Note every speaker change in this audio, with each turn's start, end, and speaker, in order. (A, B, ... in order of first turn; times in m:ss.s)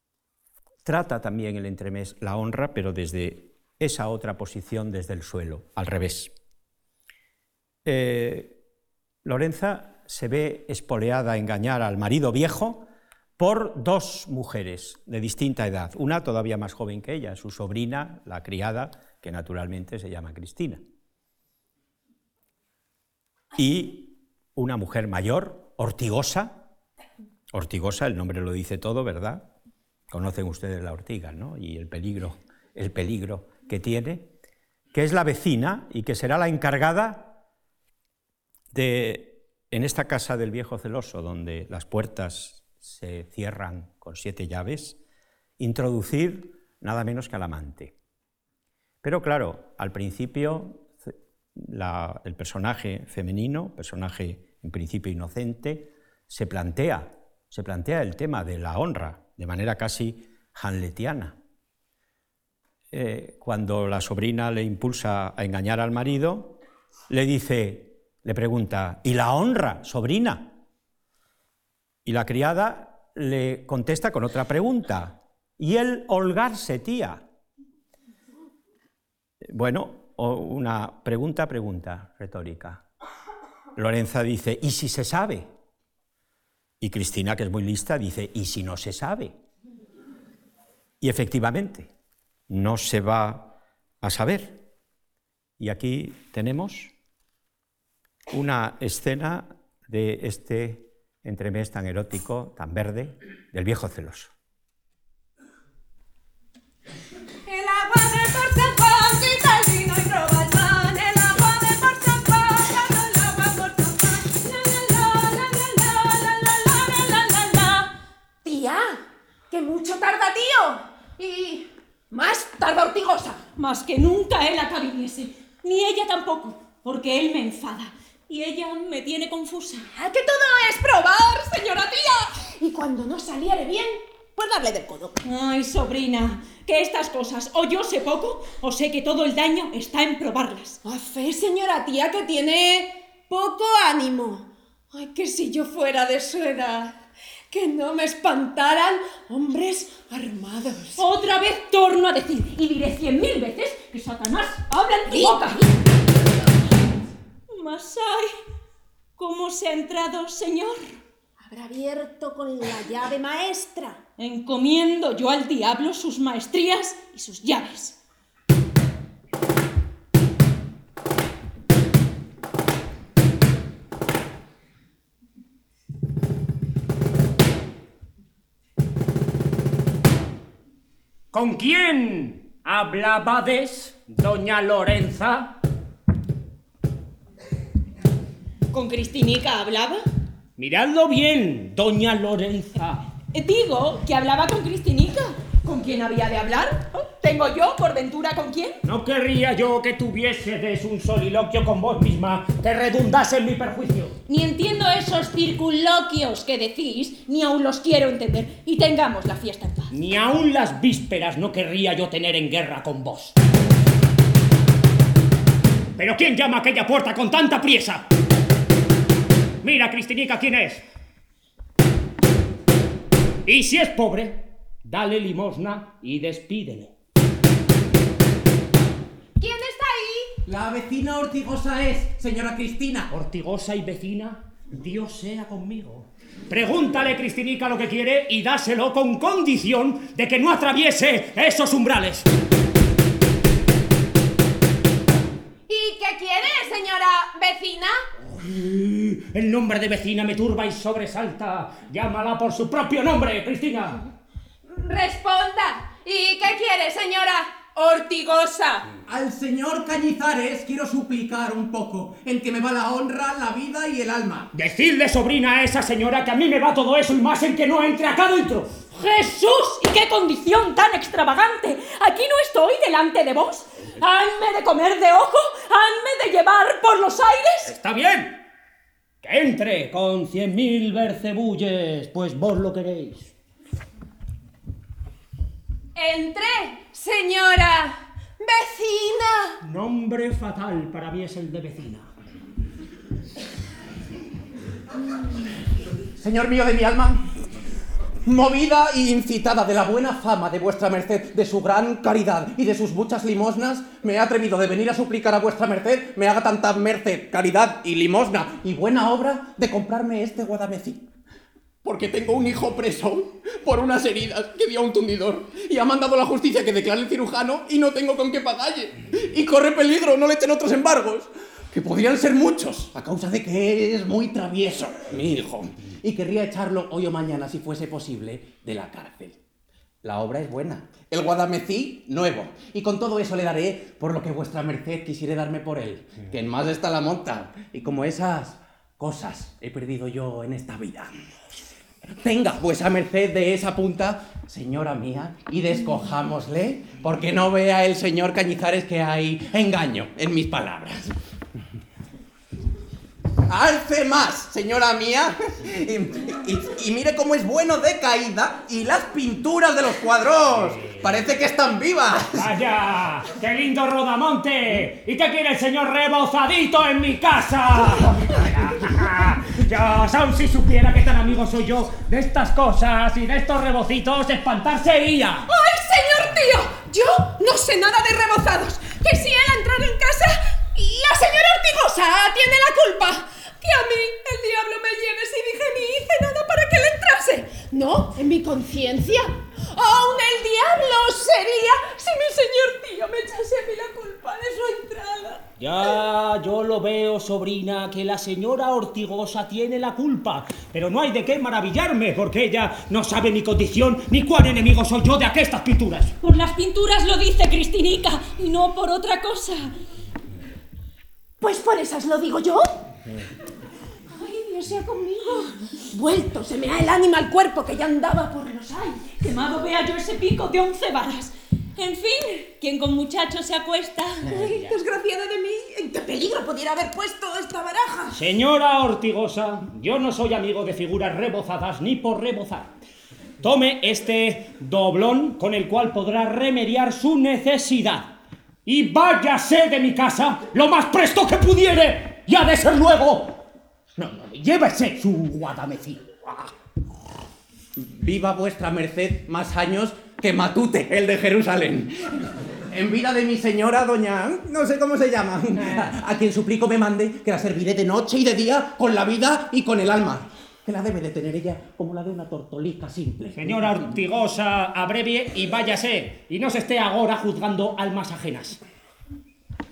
0:00.8-0:06.3 A
0:07.8-0:08.6 A
0:09.2-0:12.9 A
0:13.4-0:20.8 A
0:23.5-0:26.6 A
0:27.5-0:29.5 A
0:30.1-0:34.3 A
0:34.9-0:37.4 A
0:38.7-0:45.0 A
0:45.6-0:47.9 A
0:49.0-1:01.4 A
1:02.9-1:06.6 A
1:07.1-1:10.6 A
1:12.0-1:17.2 A
1:19.4-1:22.8 A
1:23.8-1:25.5 A
1:26.8-1:29.3 A
1:31.0-1:31.9 A
1:32.5-1:34.6 A
1:35.6-1:36.9 A
1:38.3-1:44.3 A
1:47.4-1:57.5 B
1:57.3-1:57.9 C
1:58.4-2:03.4 B
2:03.6-2:09.9 C
2:09.9-2:15.2 B
2:15.2-2:20.8 C
2:20.8-2:31.0 B
2:31.0-2:35.6 C
2:35.1-2:35.7 B
2:37.5-2:38.3 C
2:39.2-2:40.9 C
2:41.4-2:44.0 B
2:44.2-2:48.0 C
3:01.3-3:05.6 D
3:08.7-3:10.0 C
3:10.6-3:13.0 D
3:13.3-3:18.8 C
3:18.8-3:24.2 D
3:24.3-3:29.9 C
3:29.9-3:33.4 D
3:36.0-3:38.0 D
3:39.6-3:40.8 D
3:43.4-3:46.9 D
3:49.4-3:50.3 B
3:50.4-3:53.1 E
3:53.1-4:02.3 D
4:05.7-4:08.0 B
4:08.4-4:14.0 D
4:14.7-4:18.9 B
4:19.0-4:24.5 E
4:24.5-4:28.8 D
4:28.9-4:37.7 C
4:37.7-4:38.4 D
4:39.2-4:43.3 D
4:46.0-4:46.8 C
4:46.8-4:49.6 B
4:49.6-4:52.1 D
4:56.2-4:57.3 E
4:58.2-5:11.1 E
5:11.8-5:29.4 E
5:30.0-5:41.1 E
5:42.0-5:51.1 E
5:53.5-6:02.4 E
6:02.3-6:15.5 D
6:15.5-6:35.9 B
6:35.6-6:46.1 D
6:46.2-6:49.7 C
6:51.4-6:52.8 B
6:54.1-6:59.2 B
6:59.2-7:04.3 C
7:04.3-7:08.2 B
7:08.1-7:12.7 D
7:13.4-7:18.1 D
7:18.6-7:23.4 D
7:24.0-7:26.5 D
7:27.8-7:43.8 E
7:43.3-7:48.6 D